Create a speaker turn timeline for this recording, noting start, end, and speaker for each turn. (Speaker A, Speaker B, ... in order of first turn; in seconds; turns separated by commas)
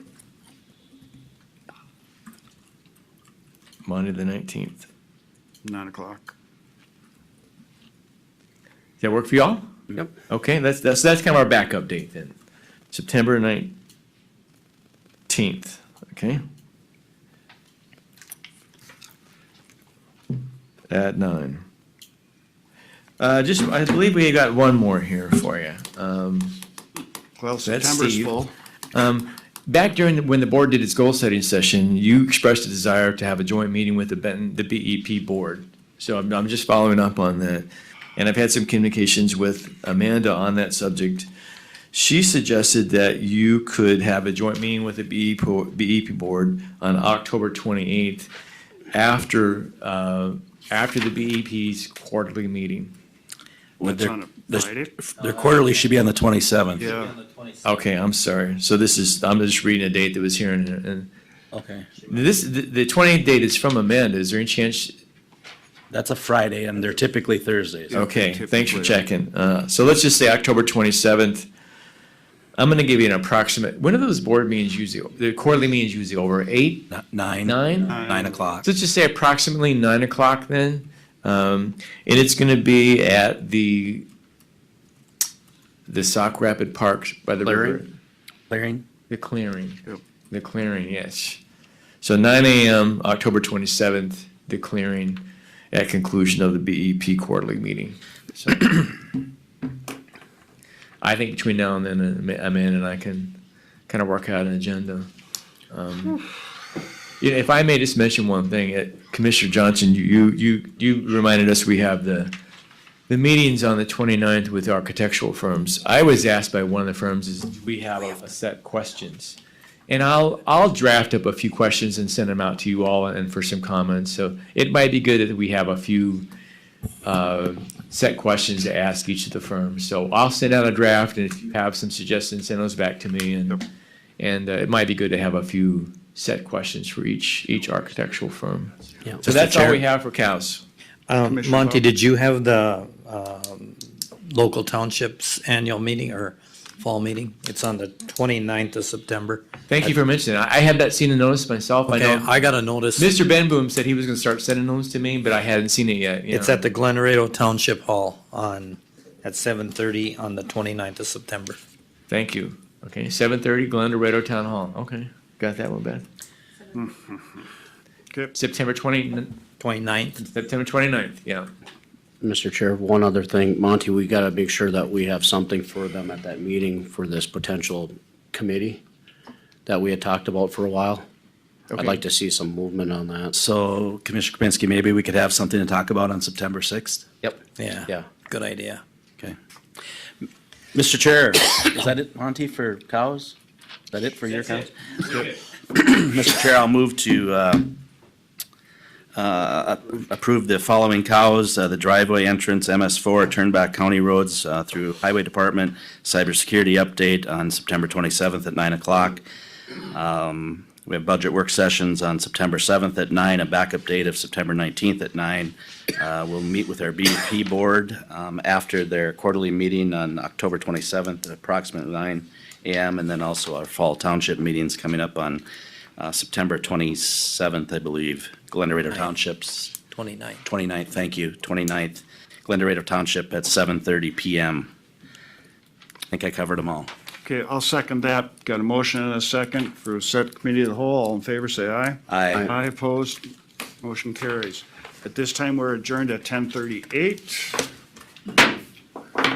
Speaker A: 3.8-4.9, Speaker B: 5.6-6.3, Speaker A: 9.0-9.6, Speaker A: 10.3-12.3, Speaker A: 12.9-13.7, Speaker A: 15.3-16.4, Speaker A: 20.9-21.6, Speaker A: 23.2-26.6, Speaker B: 27.4-28.5, Speaker A: 27.6-41.3, Speaker A: 41.9-48.3, Speaker A: 48.9-52.9, Speaker B: 53.8-54.9, Speaker C: 53.8-56.9, Speaker B: 56.8-57.1, Speaker A: 57.6-61.1, Speaker C: 61.5-62.0, Speaker A: 62.1-65.0, Speaker C: 65.9-68.1, Speaker A: 67.9-71.5, Speaker B: 68.0-69.0, Speaker A: 72.6-76.9, Speaker C: 76.9-78.7, Speaker A: 77.4-78.0, Speaker A: 78.6-84.1, Speaker A: 85.9-87.9, Speaker C: 87.4-87.8, Speaker C: 88.5-88.8, Speaker A: 89.1-91.4, Speaker A: 92.0-99.0, Speaker A: 101.0-103.4, Speaker A: 103.9-105.1, Speaker A: 105.7-106.2, Speaker A: 107.2-112.3, Speaker A: 113.1-126.3, Speaker A: 127.0-133.6, Speaker A: 134.2-140.6, Speaker D: 139.3-139.8, Speaker D: 141.1-149.9, Speaker B: 141.3-141.9, Speaker A: 149.7-152.3, Speaker D: 151.9-153.1, Speaker A: 153.0-156.6, Speaker D: 156.3-161.6, Speaker A: 162.1-166.1, Speaker B: 166.8-167.4, Speaker A: 168.3-169.4, Speaker D: 169.6-170.2, Speaker A: 170.2-171.5, Speaker E: 172.2-178.8, Speaker E: 179.7-181.0, Speaker E: 181.7-183.4, Speaker A: 181.7-182.0, Speaker C: 183.4-187.3, Speaker D: 187.6-188.8, Speaker C: 190.7-193.4, Speaker C: 193.9-197.7, Speaker C: 199.2-209.2, Speaker C: 209.9-225.4, Speaker C: 226.0-229.8, Speaker D: 229.9-230.4, Speaker C: 230.4-234.7, Speaker C: 236.1-236.9, Speaker B: 237.3-242.0, Speaker C: 242.1-242.5, Speaker B: 242.5-243.3, Speaker B: 243.8-247.7